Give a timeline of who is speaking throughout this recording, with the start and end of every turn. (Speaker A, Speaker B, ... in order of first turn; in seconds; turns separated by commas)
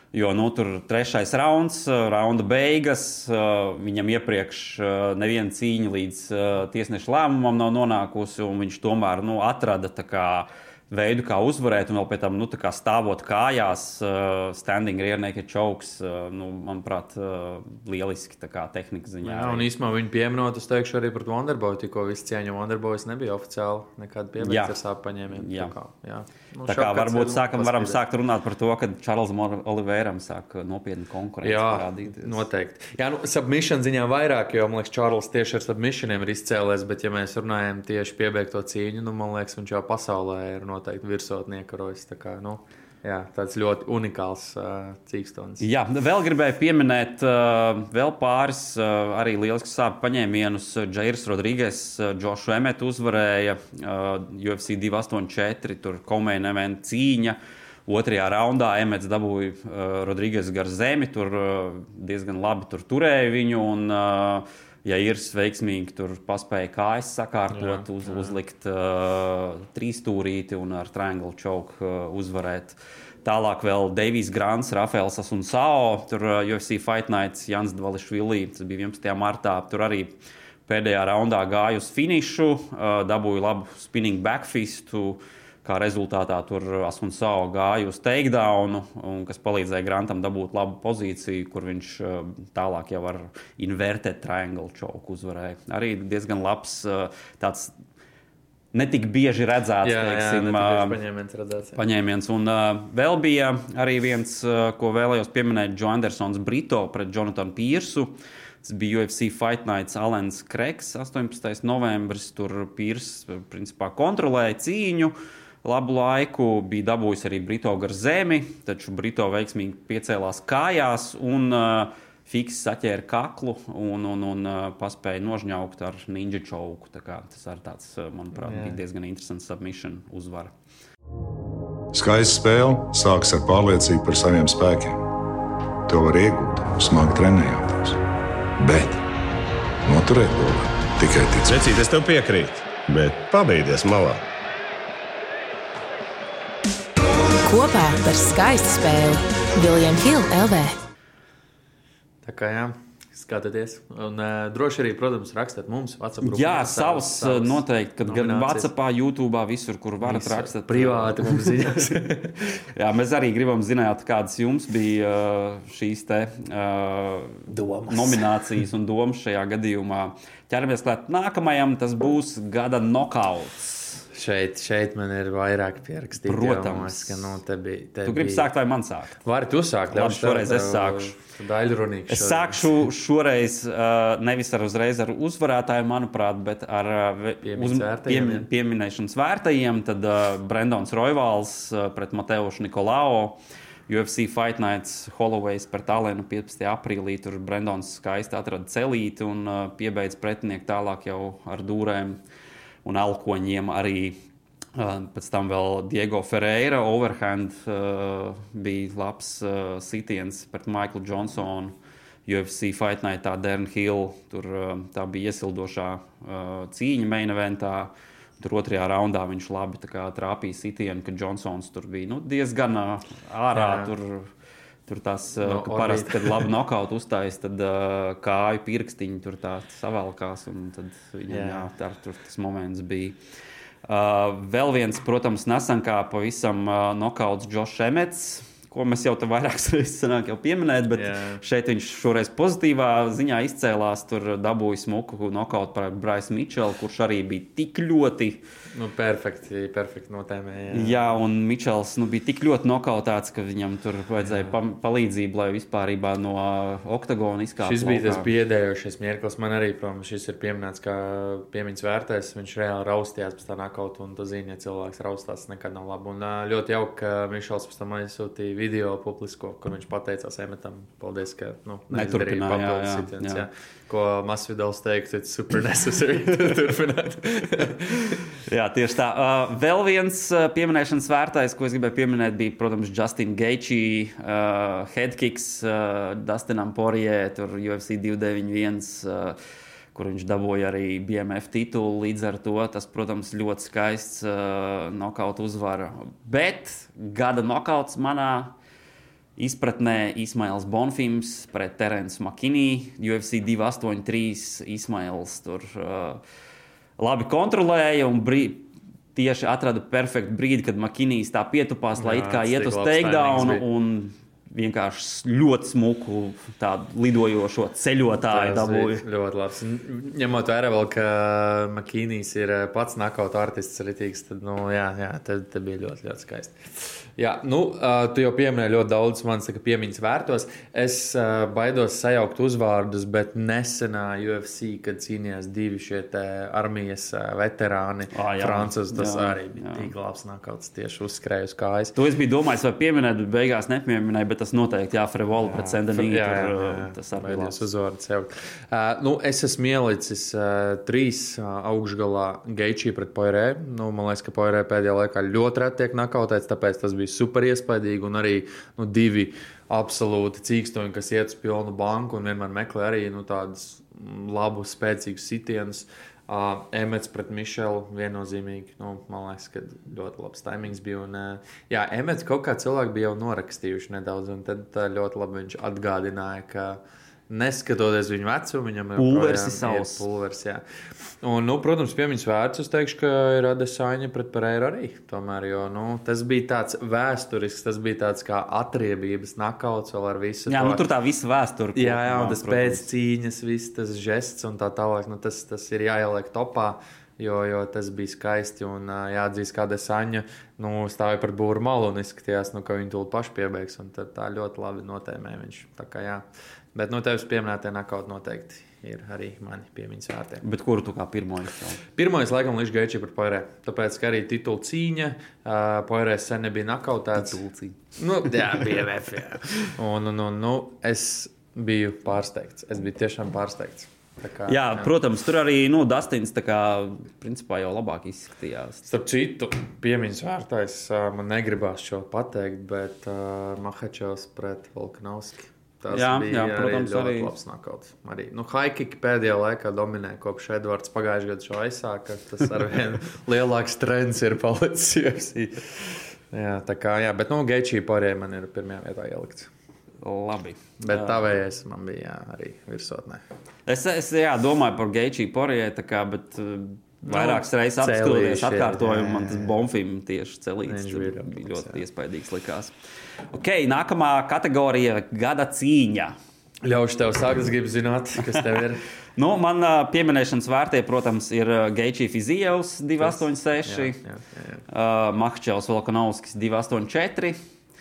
Speaker A: 0.1-19.7, Speaker B: 19.2-28.0, Speaker A: 24.4-24.8, Speaker A: 25.3-25.8, Speaker A: 26.7-32.5, Speaker B: 31.4-45.6, Speaker A: 45.6-80.2, Speaker B: 67.5-68.4, Speaker A: 80.7-97.7, Speaker A: 98.7-101.0, Speaker B: 99.8-101.8, Speaker A: 101.8-130.5, Speaker B: 128.3-128.8, Speaker C: 131.9-135.0, Speaker C: 135.9-138.0, Speaker C: 138.6-139.0, Speaker C: 139.8-141.6, Speaker D: 141.4-144.2, Speaker E: 147.4-150.7, Speaker B: 152.2-158.7, Speaker A: 156.2-161.7, Speaker B: 160.0-162.4, Speaker A: 162.8-173.8, Speaker B: 167.5-168.4, Speaker B: 174.1-178.5, Speaker A: 176.2-177.4, Speaker A: 178.0-179.2, Speaker B: 179.2-182.7, Speaker A: 179.9-181.2, Speaker A: 182.1-193.4, Speaker B: 187.4-188.5, Speaker A: 193.9-202.2, Speaker A: 202.8-204.2, Speaker A: 204.8-211.8, Speaker A: 212.3-224.3, Speaker B: 223.5-223.9, Speaker A: 224.9-233.2, Speaker B: 225.4-226.5, Speaker B: 231.3-231.7, Speaker A: 233.9-248.4, Speaker B: 240.9-241.4, Speaker B: 248.7-251.1, Speaker A: 250.7-258.3, Speaker B: 254.2-254.5, Speaker B: 257.6-278.2, Speaker A: 271.9-273.5, Speaker A: 278.3-289.4, Speaker A: 289.9-298.6, Speaker A: 299.4-306.2, Speaker A: 307.0-319.0, Speaker B: 312.0-313.6, Speaker B: 318.3-341.9, Speaker A: 338.1-339.9, Speaker A: 341.9-347.6, Speaker B: 345.4-380.6, Speaker A: 379.0-380.1, Speaker B: 381.2-390.8, Speaker A: 390.5-392.9, Speaker B: 391.8-410.4, Speaker A: 410.4-411.8, Speaker B: 411.9-417.4, Speaker A: 417.2-417.8, Speaker B: 418.0-424.9, Speaker A: 424.5-428.9, Speaker B: 428.9-449.5, Speaker A: 435.9-437.4, Speaker A: 450.0-451.3, Speaker B: 450.8-453.2, Speaker A: 453.7-462.7, Speaker B: 457.1-459.6, Speaker B: 460.6-461.8, Speaker A: 463.3-466.2, Speaker B: 466.6-468.9, Speaker A: 469.2-474.0, Speaker B: 473.0-474.6, Speaker A: 474.7-477.4